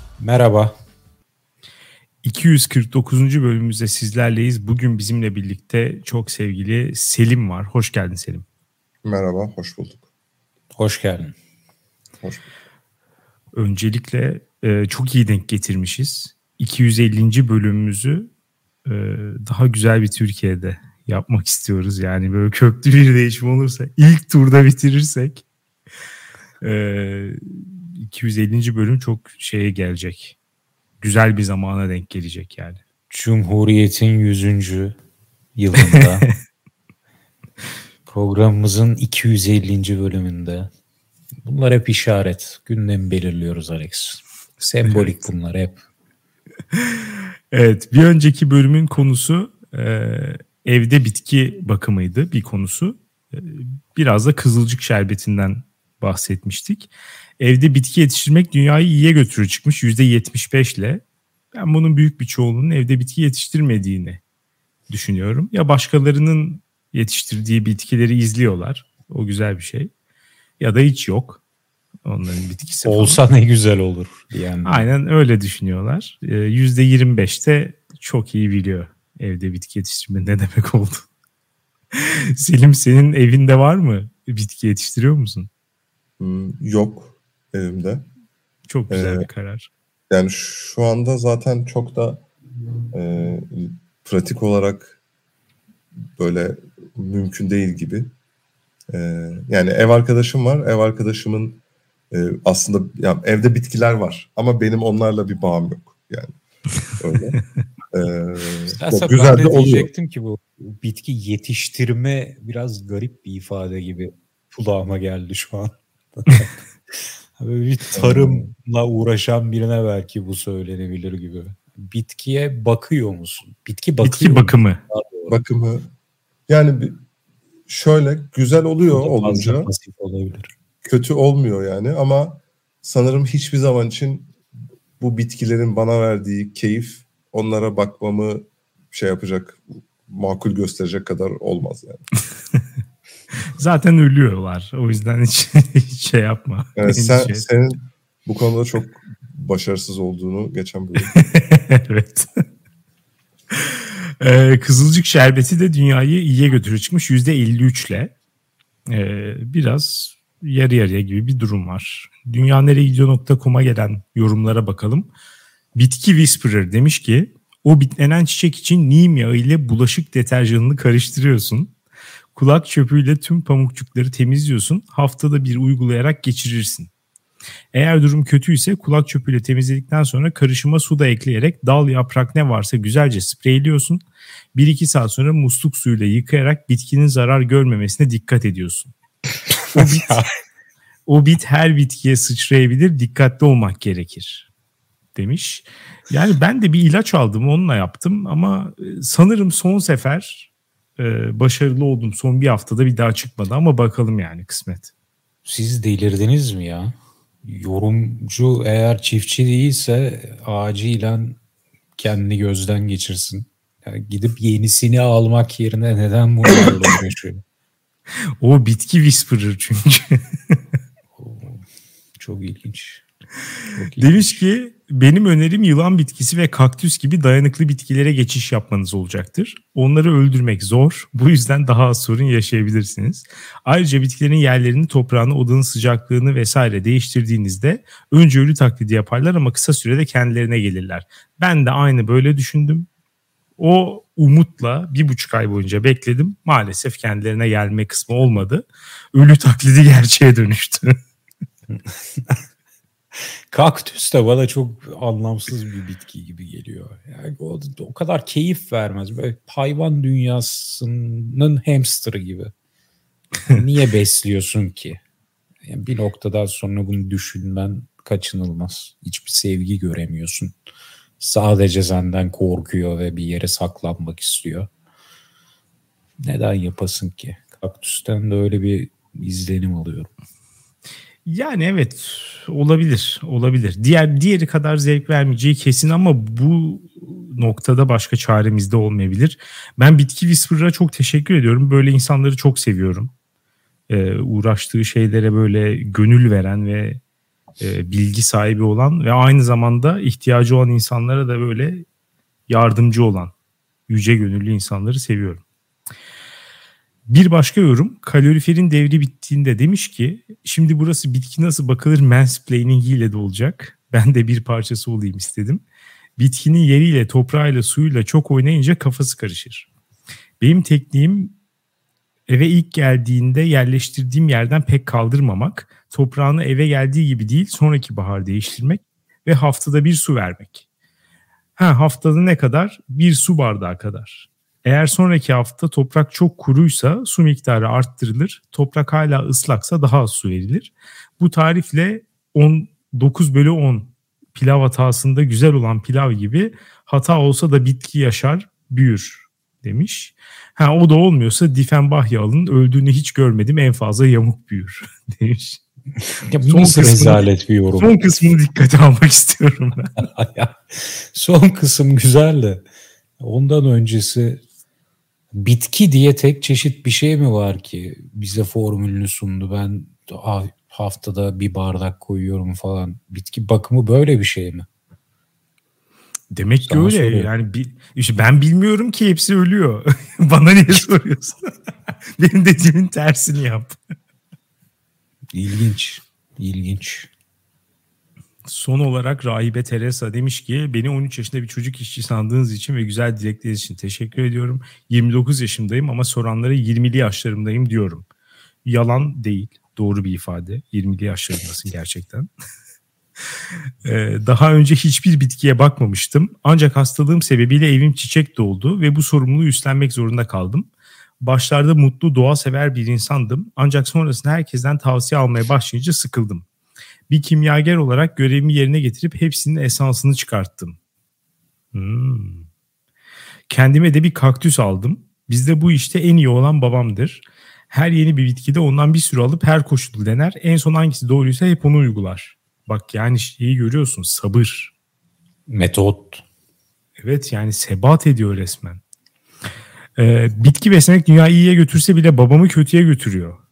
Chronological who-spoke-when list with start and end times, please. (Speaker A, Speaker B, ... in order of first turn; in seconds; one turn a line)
Speaker A: 0.2-0.7
Speaker B: 2.2-8.4
Speaker C: 9.0-10.0
Speaker A: 10.7-11.3
Speaker B: 13.6-18.3
Speaker B: 18.9-25.4
Speaker B: 26.6-30.4
Speaker B: 31.0-32.8
Speaker A: 33.1-35.0
Speaker A: 35.5-36.3
Speaker B: 35.8-36.3
Speaker A: 38.1-40.7
Speaker A: 41.4-45.8
Speaker B: 44.8-45.1
Speaker B: 46.7-61.0
Speaker B: 61.5-64.2
Speaker B: 64.9-69.9
Speaker B: 70.6-71.4
Speaker B: 72.0-73.2
Speaker A: 72.8-74.8
Speaker B: 74.6-81.0
Speaker B: 81.9-85.5
Speaker C: 86.2-88.1
Speaker B: 88.7-89.7
Speaker C: 88.9-89.3
Speaker C: 90.1-92.2
Speaker C: 92.9-95.0
Speaker C: 96.2-98.1
Speaker C: 98.9-101.6
Speaker C: 102.1-106.3
Speaker C: 107.0-107.4
Speaker C: 107.9-109.9
Speaker A: 108.7-125.3
Speaker C: 117.9-118.5
Speaker B: 124.0-124.8
Speaker C: 125.3-125.9
Speaker C: 126.5-127.0
Speaker C: 127.7-129.7
Speaker A: 128.9-130.5
Speaker C: 130.8-134.3
Speaker C: 135.0-142.1
Speaker B: 143.5-147.4
Speaker C: 146.8-151.2
Speaker B: 151.1-152.3
Speaker B: 153.6-158.1
Speaker B: 158.9-165.1
Speaker B: 165.7-171.7
Speaker B: 172.3-176.9
Speaker B: 177.7-184.0
Speaker B: 184.5-188.9
Speaker A: 189.5-190.2
Speaker B: 189.7-190.2
Speaker B: 191.1-194.5
Speaker B: 195.2-204.9
Speaker A: 205.4-211.4
Speaker A: 211.9-217.4
Speaker B: 218.4-220.5
Speaker A: 221.2-221.6
Speaker A: 222.2-223.0
Speaker A: 223.7-224.4
Speaker B: 224.0-242.9
Speaker B: 243.6-251.0
Speaker A: 251.7-252.4
Speaker A: 253.5-262.5
Speaker A: 263.5-265.0
Speaker A: 265.6-270.6
Speaker A: 271.2-274.7
Speaker A: 276.2-280.1
Speaker B: 281.2-293.1
Speaker B: 293.9-297.0
Speaker B: 297.6-301.9
Speaker B: 302.5-303.3
Speaker B: 303.9-305.4
Speaker B: 307.1-315.6
Speaker B: 316.2-319.7
Speaker B: 320.4-321.4
Speaker B: 322.3-330.6
Speaker B: 331.6-355.6
Speaker A: 356.3-358.0
Speaker B: 356.4-360.0
Speaker A: 360.0-362.6
Speaker A: 363.2-364.4
Speaker A: 365.3-374.6
Speaker B: 376.3-381.5
Speaker A: 376.6-377.3
Speaker B: 382.2-383.8
Speaker A: 385.3-387.1
Speaker B: 388.4-398.0
Speaker B: 398.6-402.3
Speaker B: 403.8-410.7
Speaker B: 411.2-416.4
Speaker B: 417.1-420.8
Speaker B: 421.7-422.4
Speaker B: 423.5-434.7
Speaker A: 435.5-436.2
Speaker B: 437.0-438.8
Speaker B: 440.0-443.4